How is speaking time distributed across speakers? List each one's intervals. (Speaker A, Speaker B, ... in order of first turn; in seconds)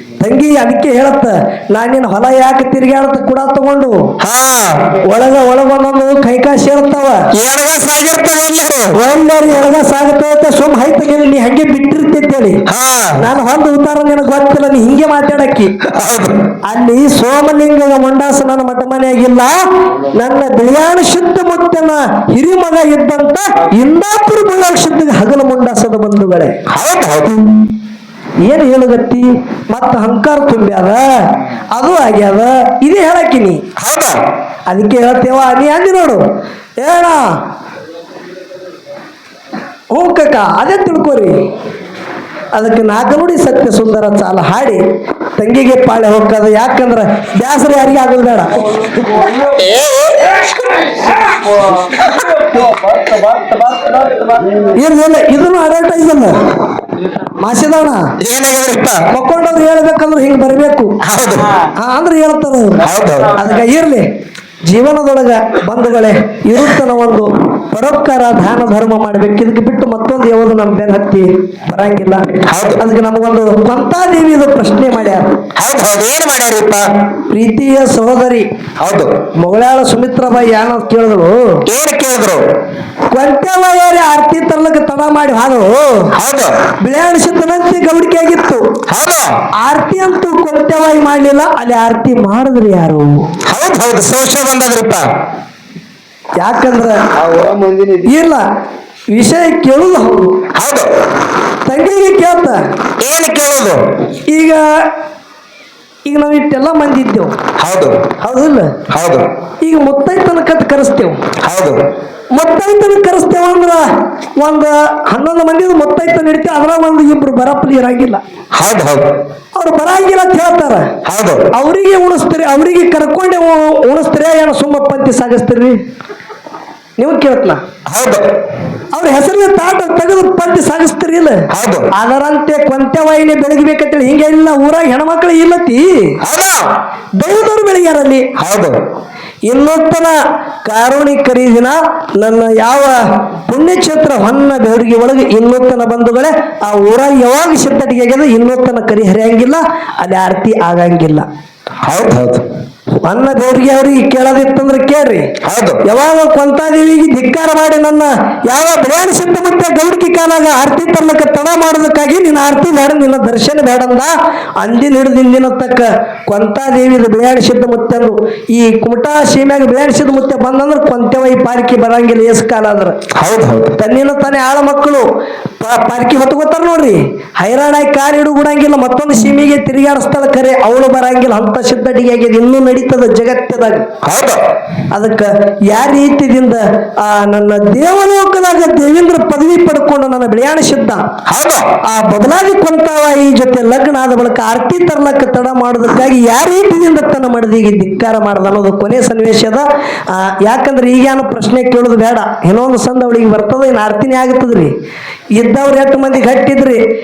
Speaker A: 0.2-4.0, 5.0-7.2, 8.9-12.6, 13.2-15.7, 16.7-26.6, 28.4-31.1, 31.7-33.6, 34.7-36.2, 36.8-37.2, 39.9-41.3, 42.5-44.8, 45.4-48.6, 54.7-56.4, 57.2-58.1, 59.1-60.9, 61.7-64.0, 64.7-75.4, 77.3-78.5, 79.4-81.4, 83.1-86.1, 86.8-88.7, 89.6-93.2, 96.4-97.0, 98.0-98.4, 99.1-100.3, 101.7-102.6, 104.3-104.6, 106.0-107.3, 108.2-108.8, 109.6-111.2, 112.3-113.8, 114.4-118.2, 119.5-120.9, 121.5-125.8, 127.0-127.6, 128.9-136.2, 137.2-138.3, 139.5-151.2, 153.0-155.3, 155.8-173.0, 173.8-175.0, 175.6-183.9, 184.9-191.0, 191.9-204.7, 205.3-206.8
Speaker B: 4.2-4.9, 7.3-8.9, 12.7-13.2, 15.9-16.4, 26.7-27.6, 33.8-34.1, 58.2-59.0, 61.0-61.6, 62.8-63.4, 72.5-72.8, 75.5-76.8, 78.8-79.1, 81.7-82.4, 86.2-86.6, 88.9-89.3, 93.5-95.0, 100.5-100.9, 103.0-103.8, 107.6-108.0, 108.9-109.3, 111.4-111.8, 118.5-119.1, 121.0-121.5, 127.8-128.3, 131.5-131.9, 136.2-136.7, 138.4-138.8, 151.8-152.4, 155.4-155.8, 173.2-173.7, 184.0-184.4, 191.3-191.7
Speaker C: 48.8-49.7, 51.2-54.7, 97.1-98.1